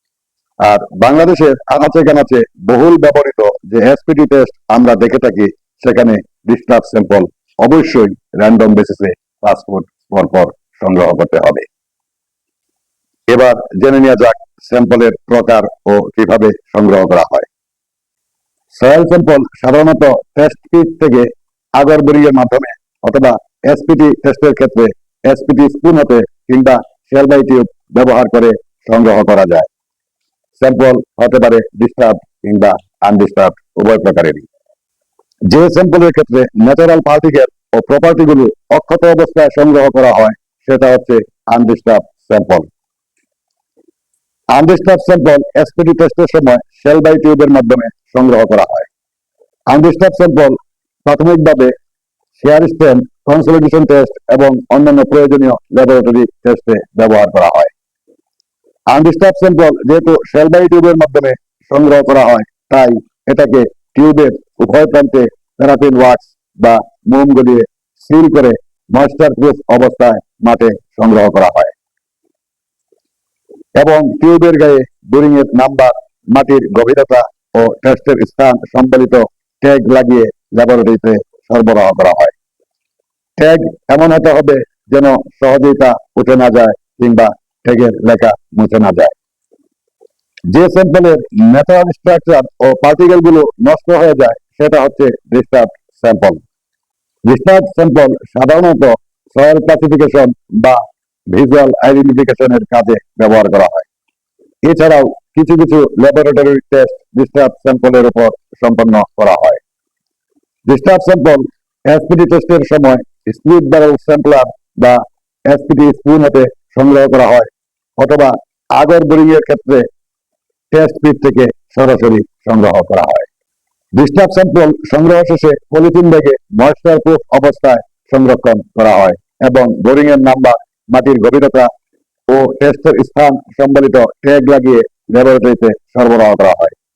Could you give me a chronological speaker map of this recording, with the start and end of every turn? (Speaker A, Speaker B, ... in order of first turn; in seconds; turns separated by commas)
Speaker A: 0.6-11.7, Speaker A: 13.3-17.5, Speaker A: 18.7-29.7, Speaker A: 30.6-34.5, Speaker A: 35.5-42.7, Speaker A: 44.5-48.9, Speaker A: 49.7-51.7, Speaker A: 52.4-57.7, Speaker A: 58.9-71.7, Speaker A: 73.8-82.3, Speaker A: 83.4-89.1, Speaker A: 90.5-96.4, Speaker A: 97.2-103.9, Speaker A: 104.6-109.6, Speaker A: 110.7-119.8, Speaker A: 120.7-123.2, Speaker A: 124.0-131.7, Speaker A: 132.3-136.7